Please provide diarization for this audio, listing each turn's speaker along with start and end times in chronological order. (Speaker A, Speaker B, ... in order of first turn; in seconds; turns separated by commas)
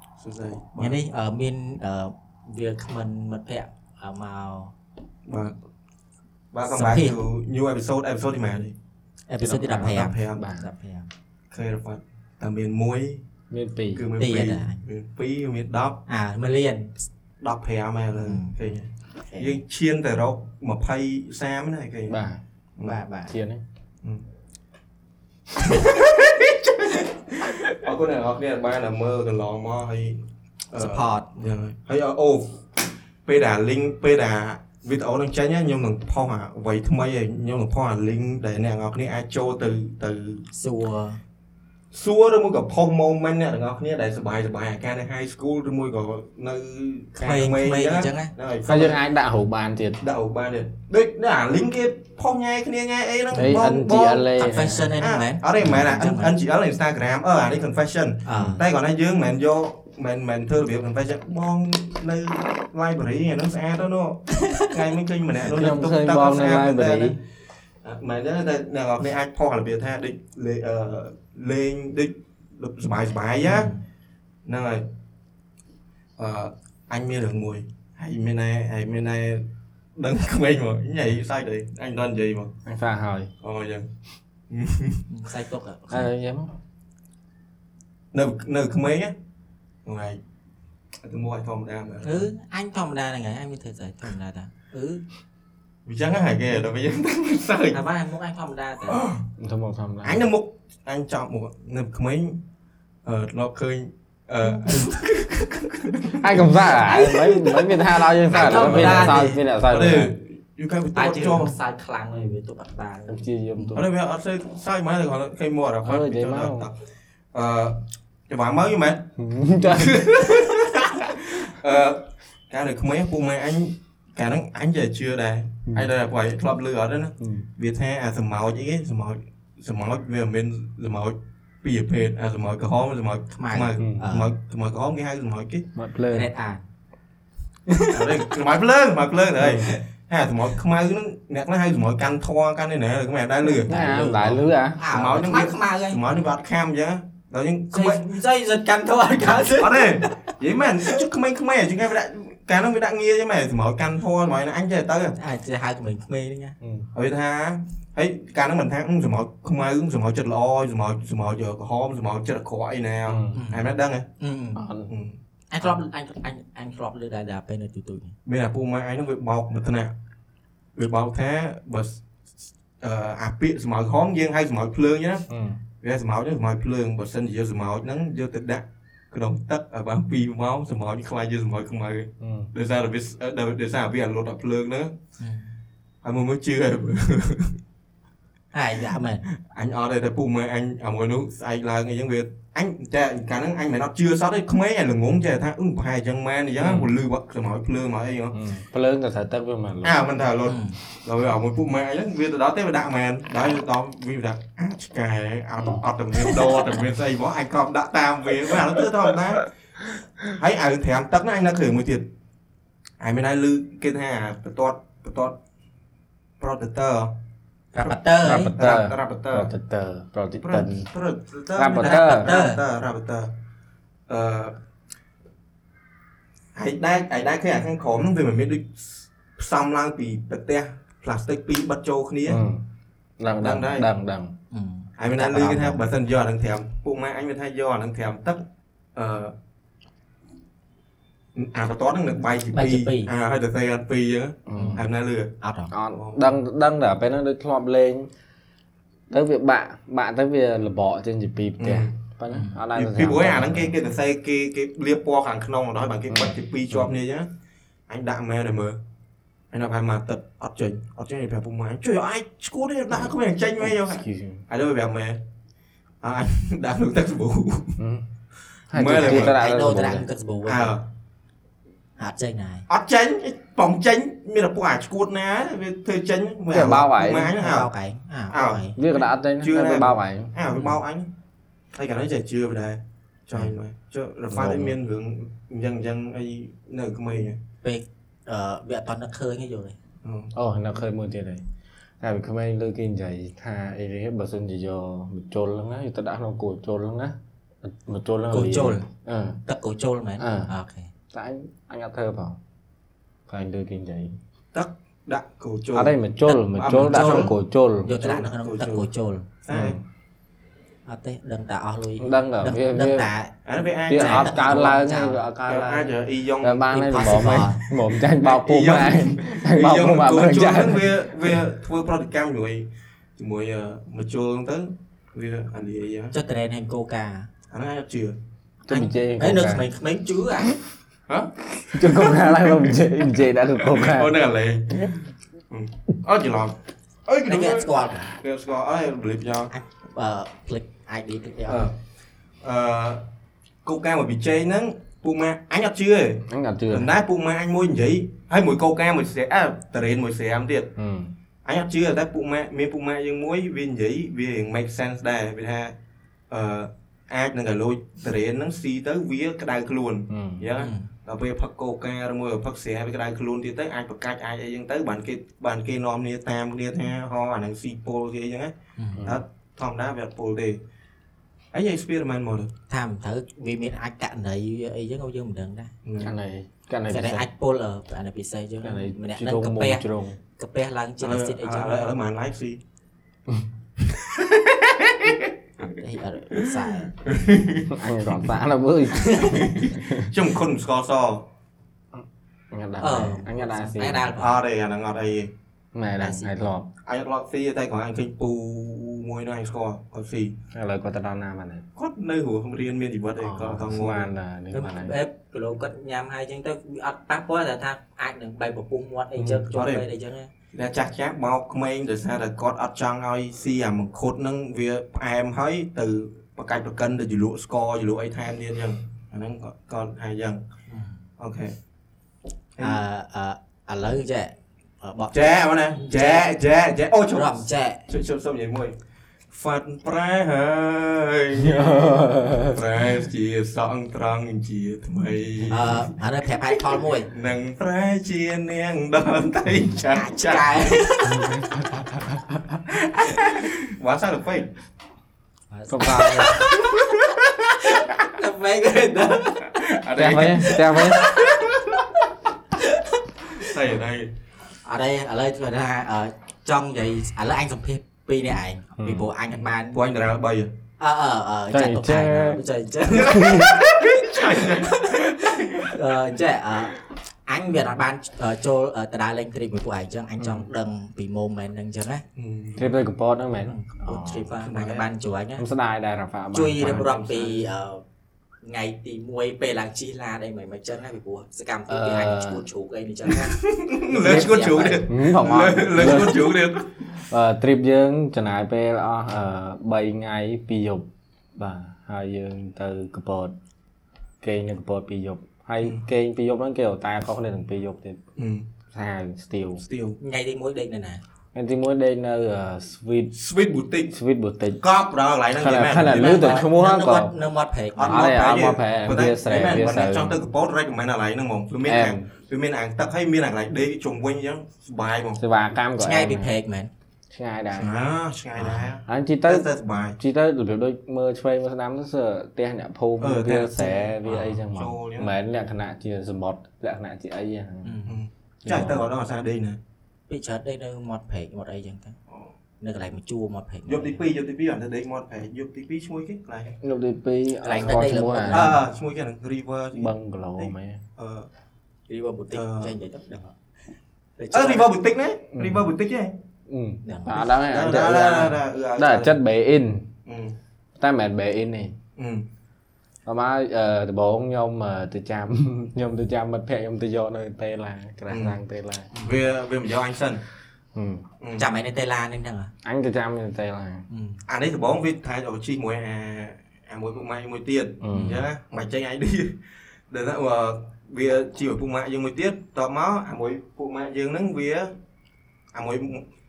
Speaker A: 0.2-1.0, Speaker B: 0.8-4.7, Speaker A: 5.3-5.6, Speaker A: 6.5-8.8, Speaker B: 6.7-7.2, Speaker B: 9.3-11.1, Speaker C: 9.4-10.6, Speaker A: 9.8-10.4, Speaker A: 11.5-13.2, Speaker C: 13.5-14.1, Speaker A: 13.9-16.0, Speaker B: 14.2-14.8, Speaker B: 16.1-16.9, Speaker A: 17.4-22.2, Speaker B: 18.2-18.6, Speaker B: 19.3-19.6, Speaker C: 22.1-22.4, Speaker A: 22.8-23.0, Speaker B: 22.8-23.3, Speaker C: 23.3-23.6, Speaker A: 25.6-32.6, Speaker B: 30.8-31.4, Speaker A: 33.2-40.4, Speaker B: 40.5-41.2, Speaker A: 41.9-49.0, Speaker B: 47.2-48.3, Speaker C: 48.7-50.0, Speaker A: 50.0-67.2, Speaker C: 53.3-54.9, Speaker B: 54.4-56.3, Speaker B: 58.2-58.6, Speaker B: 64.4-64.7, Speaker C: 65.5-67.2, Speaker A: 67.8-73.7, Speaker B: 73.4-73.8, Speaker A: 74.4-74.9, Speaker A: 76.2-82.5, Speaker C: 82.7-83.3, Speaker A: 83.4-83.9, Speaker A: 84.5-85.0, Speaker B: 85.1-86.1, Speaker C: 85.9-86.5, Speaker A: 88.1-89.1, Speaker A: 89.8-90.2, Speaker A: 91.0-92.3, Speaker B: 92.0-95.0, Speaker A: 95.9-97.8, Speaker B: 97.7-99.0, Speaker A: 98.9-99.2, Speaker C: 99.4-100.2, Speaker A: 100.0-102.4, Speaker A: 103.0-106.6, Speaker C: 106.2-110.1, Speaker B: 106.8-107.8, Speaker B: 108.3-109.4, Speaker A: 108.3-111.5, Speaker B: 110.9-113.8, Speaker C: 113.1-113.9, Speaker A: 113.7-116.7, Speaker C: 115.8-116.7, Speaker A: 117.3-119.1, Speaker C: 119.2-120.1, Speaker A: 119.6-135.7, Speaker C: 127.2-127.5, Speaker B: 133.3-134.3, Speaker C: 133.8-134.0, Speaker C: 135.8-136.3, Speaker B: 136.1-136.6, Speaker B: 137.7-138.2, Speaker A: 137.9-148.1, Speaker C: 139.4-139.7, Speaker C: 143.6-144.8, Speaker B: 143.7-146.0, Speaker B: 147.7-150.1, Speaker A: 149.6-155.1, Speaker B: 155.2-156.6, Speaker C: 156.6-156.9, Speaker A: 156.9-164.1, Speaker C: 163.1-163.4, Speaker B: 163.3-164.6, Speaker C: 164.6-164.9, Speaker A: 164.9-165.2, Speaker B: 165.5-168.1, Speaker A: 168.2-169.9, Speaker A: 170.8-175.3, Speaker C: 175.3-175.6, Speaker A: 175.8-184.9, Speaker C: 182.2-182.5, Speaker B: 185.2-185.5, Speaker A: 186.0-187.6, Speaker B: 188.5-189.2, Speaker A: 189.3-198.4, Speaker C: 198.3-199.9, Speaker A: 199.8-209.5, Speaker B: 200.4-200.8, Speaker A: 210.3-212.1, Speaker A: 213.0-215.4, Speaker A: 216.4-217.1, Speaker B: 217.7-218.6, Speaker C: 218.2-220.8, Speaker A: 218.6-219.5, Speaker A: 220.4-223.3, Speaker C: 221.6-222.3, Speaker B: 221.7-222.6, Speaker A: 224.1-224.6, Speaker A: 226.6-232.4, Speaker C: 232.3-232.6, Speaker C: 233.2-234.3, Speaker A: 233.4-233.9, Speaker B: 234.5-235.8, Speaker A: 235.0-239.3, Speaker A: 241.3-245.3, Speaker B: 242.5-243.1, Speaker C: 244.5-244.8, Speaker B: 244.6-244.8, Speaker B: 245.4-245.7, Speaker C: 245.7-248.1, Speaker A: 245.9-246.2, Speaker C: 249.1-253.7, Speaker A: 251.6-251.9, Speaker B: 252.3-252.6, Speaker A: 252.7-257.3, Speaker C: 256.1-256.9, Speaker A: 257.9-258.8, Speaker A: 259.5-265.2, Speaker C: 263.6-264.4, Speaker A: 266.0-267.8, Speaker C: 268.7-270.1, Speaker A: 268.7-269.4, Speaker B: 268.9-270.8, Speaker A: 270.5-270.9, Speaker B: 272.0-272.7, Speaker A: 272.7-277.7, Speaker C: 276.5-277.4, Speaker B: 277.4-278.8, Speaker A: 278.3-281.1, Speaker C: 278.8-280.4, Speaker A: 281.7-287.4, Speaker C: 284.3-284.8, Speaker B: 287.6-289.8, Speaker A: 290.0-290.3, Speaker C: 290.4-291.4, Speaker C: 292.0-299.4, Speaker B: 298.3-298.9, Speaker B: 299.5-300.9, Speaker C: 300.2-300.5, Speaker C: 301.1-302.4, Speaker C: 303.3-304.1, Speaker A: 304.5-307.4, Speaker C: 305.8-307.9, Speaker B: 306.9-309.3, Speaker A: 307.9-308.9, Speaker A: 309.4-309.8, Speaker C: 309.5-309.8, Speaker B: 310.9-313.3, Speaker C: 312.0-313.1, Speaker A: 313.4-314.7, Speaker C: 313.9-320.9, Speaker B: 313.9-315.2, Speaker A: 315.5-317.4, Speaker B: 316.7-317.6, Speaker A: 318.2-326.1, Speaker B: 326.1-327.3, Speaker A: 327.5-328.2, Speaker C: 328.7-329.6, Speaker B: 328.7-330.6, Speaker A: 331.1-332.9, Speaker C: 331.6-334.1, Speaker A: 333.6-335.0, Speaker A: 335.5-339.5, Speaker B: 337.2-338.1, Speaker B: 339.5-341.7, Speaker A: 341.5-341.8, Speaker A: 342.4-343.0, Speaker A: 343.6-350.7, Speaker C: 346.3-346.9, Speaker C: 350.8-351.1, Speaker A: 351.4-355.8, Speaker A: 356.3-370.6, Speaker C: 360.1-360.4, Speaker B: 360.6-360.9, Speaker B: 368.8-369.1, Speaker A: 371.5-372.5, Speaker B: 372.7-375.7, Speaker A: 375.9-376.1, Speaker C: 376.0-377.2, Speaker B: 376.9-379.9, Speaker C: 378.6-380.2, Speaker B: 380.4-381.9, Speaker A: 381.0-382.6, Speaker A: 383.8-385.3, Speaker B: 385.6-386.9, Speaker A: 386.3-388.3, Speaker C: 387.7-390.1, Speaker B: 388.9-389.5, Speaker A: 389.2-391.3, Speaker C: 391.9-394.1, Speaker B: 392.8-394.4, Speaker A: 394.2-395.3, Speaker C: 395.7-396.7, Speaker B: 396.0-396.3, Speaker A: 396.9-400.4, Speaker C: 400.5-401.6, Speaker A: 401.8-404.1, Speaker C: 403.2-404.9, Speaker B: 404.5-410.3, Speaker A: 409.5-409.9, Speaker A: 410.5-420.4, Speaker B: 420.7-421.0, Speaker A: 421.2-421.6, Speaker A: 422.6-422.8, Speaker B: 422.6-426.3, Speaker A: 425.1-428.8, Speaker B: 427.1-427.8, Speaker A: 429.3-435.9, Speaker C: 431.4-432.6, Speaker B: 435.5-437.1, Speaker A: 437.1-440.8, Speaker B: 439.9-441.2, Speaker C: 441.1-442.6, Speaker A: 442.7-444.5, Speaker B: 445.5-449.6, Speaker C: 445.7-446.4, Speaker A: 446.4-447.3, Speaker A: 449.4-451.9, Speaker C: 450.0-451.1, Speaker B: 450.4-451.8, Speaker B: 452.6-453.5, Speaker A: 453.4-454.1, Speaker B: 454.6-459.8, Speaker C: 458.8-459.1, Speaker A: 459.4-460.5, Speaker B: 460.8-472.0, Speaker C: 461.5-462.4, Speaker A: 462.9-465.8, Speaker C: 463.0-463.6, Speaker A: 472.1-472.7, Speaker C: 472.6-474.3, Speaker B: 473.4-475.4, Speaker A: 474.4-474.9, Speaker C: 475.4-476.9, Speaker B: 476.3-477.8, Speaker A: 476.6-477.5, Speaker B: 478.4-484.9, Speaker C: 481.7-482.4, Speaker A: 483.1-486.9, Speaker C: 484.9-486.3, Speaker C: 487.1-493.3, Speaker C: 494.2-498.0, Speaker A: 498.2-498.5, Speaker C: 498.7-499.6, Speaker A: 499.6-500.0, Speaker B: 500.0-501.0, Speaker C: 501.4-503.1, Speaker A: 503.1-504.0, Speaker C: 503.9-504.6, Speaker A: 504.6-506.4, Speaker C: 505.4-507.1, Speaker B: 505.9-508.1, Speaker A: 507.8-515.2, Speaker C: 507.9-510.2, Speaker C: 511.6-512.1, Speaker C: 515.2-516.3, Speaker B: 515.8-516.7, Speaker C: 517.1-517.7, Speaker A: 517.5-520.0, Speaker B: 518.4-518.6, Speaker C: 518.9-519.5, Speaker C: 520.0-527.7, Speaker A: 523.0-525.1, Speaker B: 524.1-524.4, Speaker B: 527.6-528.0, Speaker A: 527.9-529.6, Speaker C: 528.5-528.9, Speaker B: 530.1-532.0, Speaker B: 532.6-534.0, Speaker A: 533.7-536.6, Speaker C: 536.6-538.5, Speaker B: 537.4-538.6, Speaker A: 537.6-541.3, Speaker C: 539.8-540.8, Speaker B: 541.9-543.4, Speaker A: 542.3-542.7, Speaker B: 544.2-544.7, Speaker A: 544.3-546.1, Speaker C: 545.4-545.7, Speaker C: 546.5-549.9, Speaker B: 546.9-547.3, Speaker A: 547.4-549.2, Speaker A: 550.1-550.4, Speaker C: 550.8-551.8, Speaker A: 552.0-552.3, Speaker C: 553.1-558.9, Speaker A: 558.1-558.4, Speaker A: 559.0-560.2, Speaker C: 560.8-561.0, Speaker A: 561.2-561.5, Speaker B: 561.4-562.5, Speaker C: 562.6-563.9, Speaker B: 563.9-564.2, Speaker A: 564.3-569.4, Speaker C: 567.8-568.2, Speaker A: 569.9-574.7, Speaker A: 575.5-576.1